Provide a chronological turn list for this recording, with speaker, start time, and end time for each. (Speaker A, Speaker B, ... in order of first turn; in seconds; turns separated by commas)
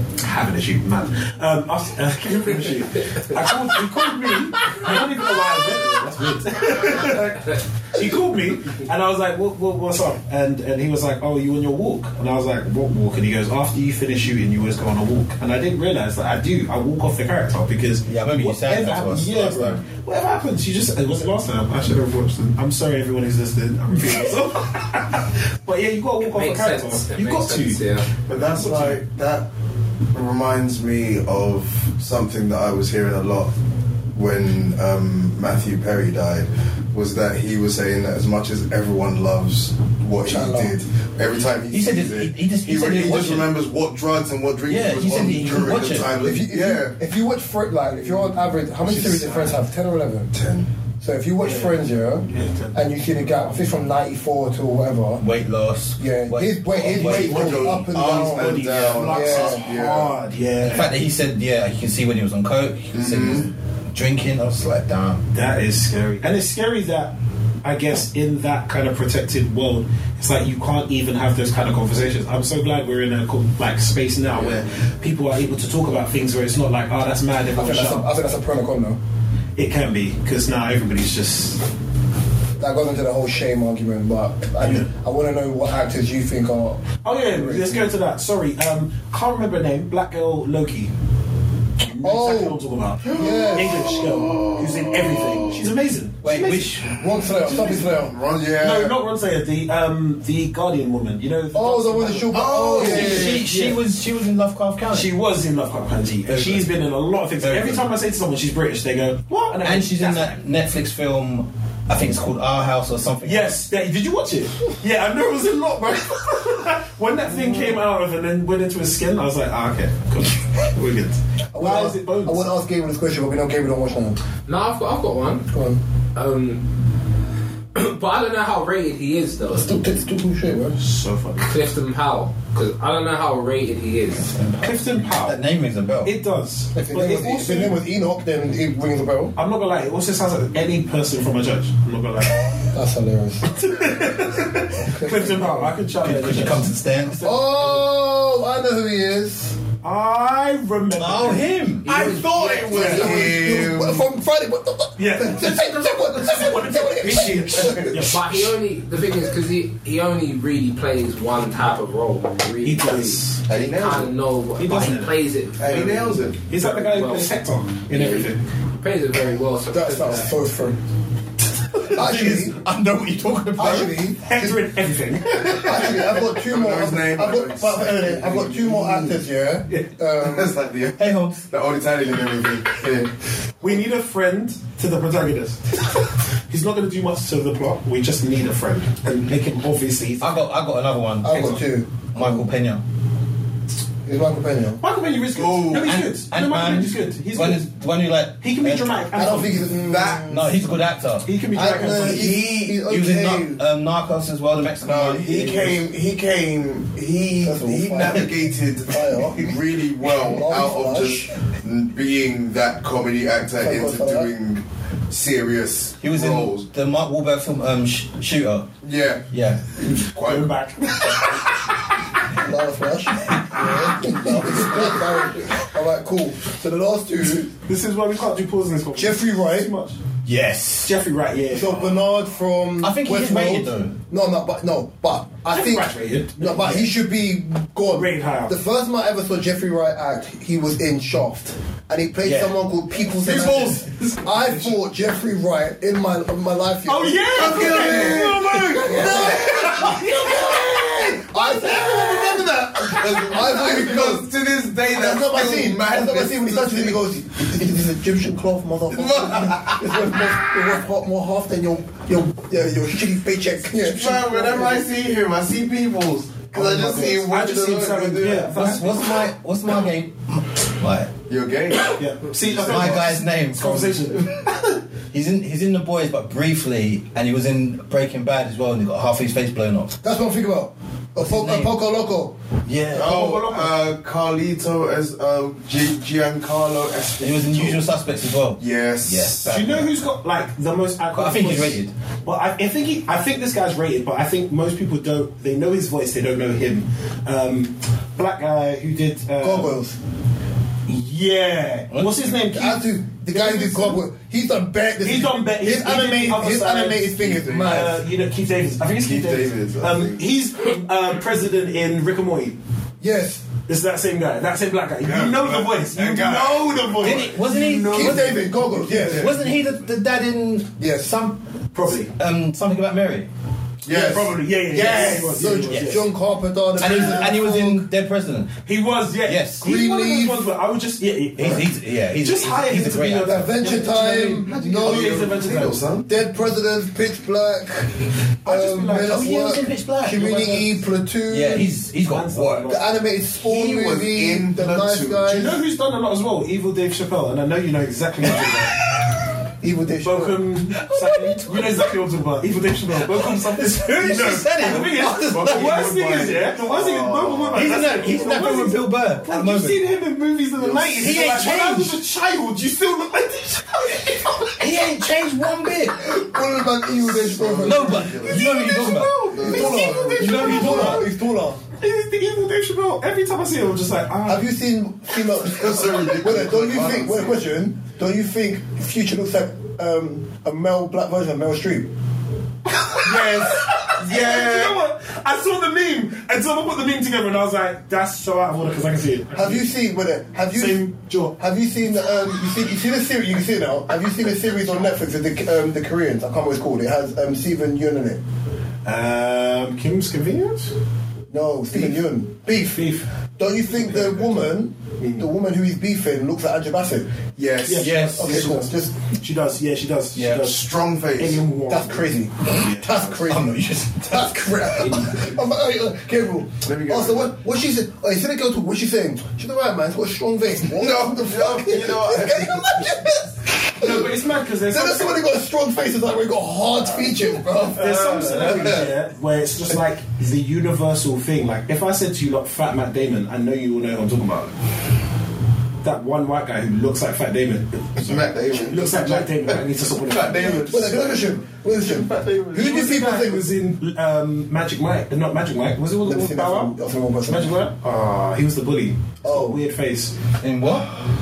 Speaker A: 0.2-29.0, Speaker B: 18.1-19.8, Speaker C: 26.2-28.1, Speaker D: 28.3-29.5, Speaker D: 30.1-33.5, Speaker D: 34.1-47.0, Speaker E: 40.2-40.7, Speaker B: 41.7-43.5, Speaker B: 44.7-46.1, Speaker E: 46.2-50.3, Speaker A: 48.9-49.5, Speaker D: 50.3-50.7, Speaker E: 51.0-55.2, Speaker A: 51.4-53.5, Speaker B: 55.2-57.7, Speaker E: 56.0-59.6, Speaker D: 56.9-60.2, Speaker A: 57.1-60.9, Speaker B: 60.6-65.3, Speaker D: 62.9-63.5, Speaker A: 65.3-78.1, Speaker E: 77.6-79.0, Speaker A: 79.6-81.6, Speaker E: 82.6-87.9, Speaker A: 84.6-84.9, Speaker A: 87.0-90.9, Speaker A: 91.8-96.8, Speaker E: 92.0-94.0, Speaker D: 93.0-95.6, Speaker B: 96.2-96.9, Speaker E: 97.0-98.2, Speaker A: 97.4-97.8, Speaker D: 97.5-99.0, Speaker A: 98.6-103.8, Speaker E: 101.5-103.4, Speaker D: 102.3-103.5, Speaker B: 102.8-105.1, Speaker A: 104.9-110.4, Speaker B: 106.3-106.7, Speaker B: 107.4-107.8, Speaker B: 109.6-113.6, Speaker A: 113.2-122.5, Speaker E: 121.5-124.2, Speaker C: 124.5-125.5, Speaker E: 125.5-125.8, Speaker C: 126.2-126.7, Speaker C: 127.8-129.7, Speaker E: 129.5-130.8, Speaker A: 130.8-131.5, Speaker C: 131.4-134.3, Speaker B: 134.2-136.1, Speaker A: 134.6-135.4, Speaker A: 136.0-137.8, Speaker E: 136.8-139.3, Speaker A: 139.4-142.7, Speaker E: 142.7-143.5, Speaker A: 143.4-147.9, Speaker E: 144.9-145.8, Speaker B: 146.0-147.2, Speaker E: 147.2-149.6, Speaker A: 149.8-153.1, Speaker B: 151.0-151.8, Speaker C: 151.8-153.2, Speaker D: 152.7-154.1, Speaker E: 152.7-158.2, Speaker A: 155.0-158.5, Speaker C: 158.0-167.3, Speaker A: 162.6-163.4, Speaker D: 163.5-164.1, Speaker B: 163.5-163.8, Speaker A: 164.6-165.1, Speaker D: 165.6-166.4, Speaker A: 166.5-168.4, Speaker C: 167.9-170.3, Speaker E: 169.7-170.8, Speaker B: 171.8-174.0, Speaker E: 171.9-172.6, Speaker E: 173.6-174.6, Speaker A: 173.6-175.9, Speaker E: 175.5-180.6, Speaker D: 175.5-179.2, Speaker D: 180.2-183.1, Speaker B: 181.0-181.4, Speaker A: 183.6-185.8, Speaker A: 186.5-190.4, Speaker B: 190.2-192.8, Speaker E: 191.2-192.4, Speaker E: 194.1-194.8, Speaker A: 194.8-197.7, Speaker D: 195.3-196.0, Speaker B: 195.7-199.4, Speaker A: 198.4-199.8, Speaker E: 199.2-200.7, Speaker D: 199.7-200.4, Speaker B: 200.3-201.3, Speaker A: 201.2-202.3, Speaker E: 201.5-203.6, Speaker D: 201.9-202.9, Speaker B: 202.8-205.9, Speaker D: 204.8-216.7, Speaker E: 207.4-209.6, Speaker E: 210.2-211.3, Speaker E: 213.6-214.3, Speaker B: 216.0-218.7, Speaker D: 218.8-219.2, Speaker B: 219.3-219.6, Speaker D: 219.8-220.5, Speaker A: 219.9-221.8, Speaker E: 222.3-227.5, Speaker B: 223.5-224.9, Speaker A: 224.4-224.9, Speaker A: 227.7-230.0, Speaker E: 228.9-229.7, Speaker B: 230.3-230.9, Speaker A: 230.7-232.0, Speaker E: 231.5-254.3, Speaker B: 232.8-234.0, Speaker A: 235.5-236.9, Speaker A: 237.9-238.6, Speaker B: 242.2-242.6, Speaker A: 243.2-244.7, Speaker D: 243.5-243.8, Speaker A: 246.8-251.7, Speaker D: 247.3-249.9, Speaker D: 251.8-257.1, Speaker E: 254.9-264.9, Speaker D: 258.9-260.1, Speaker D: 263.7-268.5, Speaker E: 266.6-267.2, Speaker A: 266.7-269.1, Speaker B: 268.5-271.1, Speaker D: 271.3-273.1, Speaker A: 272.0-274.7, Speaker B: 272.7-274.3, Speaker B: 275.1-280.0, Speaker E: 280.0-282.4, Speaker B: 281.2-281.8, Speaker B: 282.7-283.2, Speaker A: 282.7-283.7, Speaker D: 282.9-287.8, Speaker B: 287.2-289.9, Speaker D: 288.6-289.6, Speaker A: 289.5-299.8, Speaker B: 291.1-291.9, Speaker E: 299.4-300.0, Speaker A: 300.9-304.0, Speaker B: 301.9-302.3, Speaker E: 302.4-308.0, Speaker A: 305.0-312.6, Speaker D: 307.2-307.8, Speaker D: 309.0-310.2, Speaker E: 313.0-313.5, Speaker A: 313.7-319.3, Speaker D: 315.0-317.4, Speaker B: 317.0-320.8, Speaker E: 317.9-319.4, Speaker D: 319.1-319.4, Speaker E: 320.8-321.4, Speaker A: 321.7-322.1, Speaker B: 322.2-323.3, Speaker A: 323.9-326.1, Speaker D: 323.9-324.2, Speaker E: 323.9-327.9, Speaker D: 324.8-325.4, Speaker B: 325.7-326.0, Speaker B: 326.8-328.5, Speaker A: 328.7-335.8, Speaker B: 329.2-329.6, Speaker E: 329.6-330.5, Speaker B: 331.4-333.5, Speaker E: 333.3-335.3, Speaker D: 334.5-336.1, Speaker E: 336.1-341.7, Speaker A: 338.4-339.4, Speaker B: 339.0-340.4, Speaker A: 340.2-340.8, Speaker B: 341.3-342.8, Speaker A: 342.1-342.8, Speaker E: 342.7-345.6, Speaker D: 343.4-345.3, Speaker A: 345.3-348.8, Speaker E: 349.6-350.5, Speaker A: 350.0-364.6, Speaker B: 350.8-351.9, Speaker B: 353.0-355.8, Speaker D: 354.7-357.9, Speaker B: 357.5-359.8, Speaker D: 360.6-361.0, Speaker B: 361.0-362.0, Speaker B: 364.5-366.1, Speaker E: 366.0-368.3, Speaker D: 366.8-368.4, Speaker B: 367.6-369.6, Speaker A: 368.2-371.1, Speaker D: 369.3-370.8, Speaker E: 369.4-371.6, Speaker B: 370.2-371.1, Speaker A: 371.8-374.5, Speaker E: 374.3-381.9, Speaker D: 375.5-377.4, Speaker A: 383.0-389.7, Speaker D: 384.1-384.8, Speaker E: 389.3-398.2, Speaker A: 390.5-391.4, Speaker A: 394.5-394.9, Speaker A: 398.9-400.7, Speaker E: 401.3-407.2, Speaker A: 401.7-402.0, Speaker A: 402.7-403.1, Speaker A: 403.7-404.5, Speaker A: 405.0-405.3, Speaker D: 407.4-408.1, Speaker A: 407.6-413.2, Speaker B: 407.8-408.4, Speaker E: 408.2-408.9, Speaker B: 410.1-410.4, Speaker D: 410.4-411.5, Speaker E: 411.7-428.8, Speaker B: 413.3-414.2, Speaker D: 416.6-417.4, Speaker D: 420.7-422.7, Speaker A: 423.8-425.2, Speaker A: 427.7-434.5, Speaker D: 428.4-428.8, Speaker A: 435.8-440.7, Speaker D: 438.0-442.6, Speaker E: 440.4-443.5, Speaker A: 442.5-446.7, Speaker E: 446.1-447.6, Speaker A: 447.3-450.1, Speaker E: 449.2-449.6, Speaker B: 450.4-450.9